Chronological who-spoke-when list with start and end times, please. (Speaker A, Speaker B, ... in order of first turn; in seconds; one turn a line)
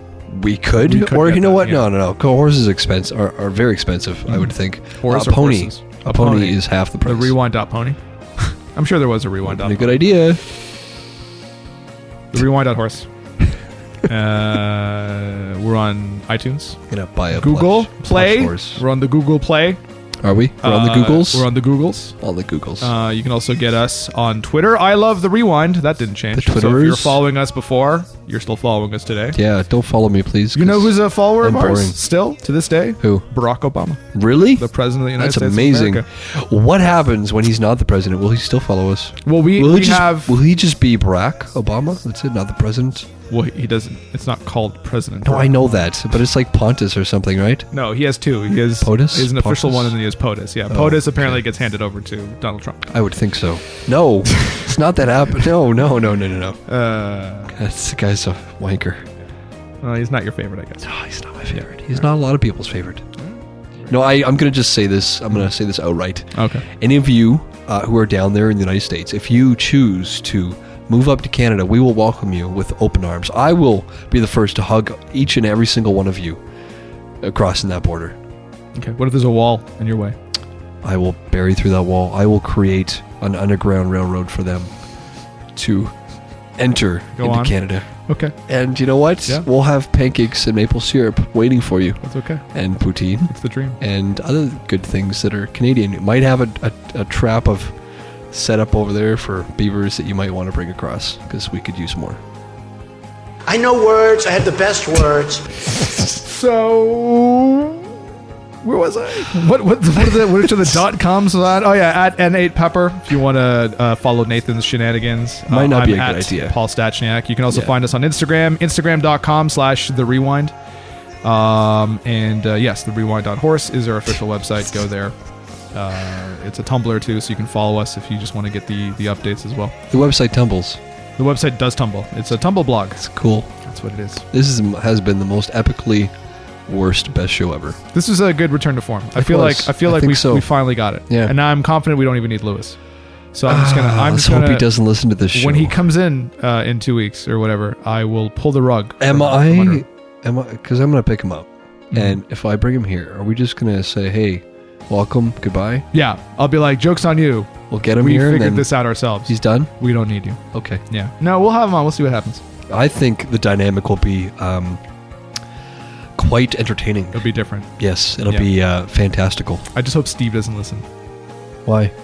Speaker A: 0.3-7.3
Speaker B: 0.8-1.9
Speaker B: 4.3-8.0
Speaker B: 8.7-10.0
Speaker A: 9.4-10.4
Speaker B: 12.3-13.1
Speaker B: 14.1-16.8
Speaker A: 16.9-18.8
Speaker B: 17.3-19.8
Speaker A: 20.2-21.5
Speaker B: 20.6-22.1
Speaker A: 22.2-22.9
Speaker B: 22.8-29.4
Speaker A: 26.3-27.2
Speaker A: 29.3-32.0
Speaker B: 30.5-34.0
Speaker A: 34.1-43.1
Speaker B: 34.6-36.0
Speaker B: 39.2-40.4
Speaker B: 43.3-45.8
Speaker A: 45.2-47.7
Speaker B: 47.7-52.9
Speaker A: 48.8-50.0
Speaker A: 50.7-51.4
Speaker A: 52.9-56.6
Speaker B: 56.7-57.5
Speaker A: 57.5-59.0
Speaker B: 59.8-60.9
Speaker A: 60.8-63.0
Speaker B: 63.2-63.9
Speaker A: 63.9-76.4
Speaker B: 66.3-66.7
Speaker A: 77.2-78.2
Speaker B: 78.8-80.2
Speaker A: 80.8-84.7
Speaker A: 85.5-86.0
Speaker A: 86.6-97.8
Speaker B: 87.2-88.3
Speaker B: 92.0-92.4
Speaker B: 93.3-93.8
Speaker A: 98.3-102.2
Speaker C: 103.5-105.5
Speaker B: 105.9-108.0
Speaker B: 108.6-120.5
Speaker A: 115.5-116.6
Speaker B: 121.2-125.2
Speaker B: 125.7-129.8
Speaker A: 129.9-130.8
Speaker B: 131.2-133.0
Speaker A: 133.0-133.5
Speaker B: 133.6-134.2
Speaker A: 134.3-136.1
Speaker A: 136.7-137.8
Speaker B: 137.9-142.8
Speaker A: 139.2-140.5
Speaker A: 141.1-141.3
Speaker B: 143.3-144.7
Speaker A: 143.5-145.8
Speaker B: 145.3-149.8
Speaker A: 149.0-155.9
Speaker B: 151.9-152.2
Speaker B: 155.9-162.4
Speaker A: 157.7-158.7
Speaker A: 159.3-159.7
Speaker A: 160.5-160.8
Speaker A: 162.7-164.8
Speaker A: 166.2-167.2
Speaker B: 167.1-167.7
Speaker A: 167.8-169.7
Speaker B: 169.8-170.9
Speaker A: 171.7-171.9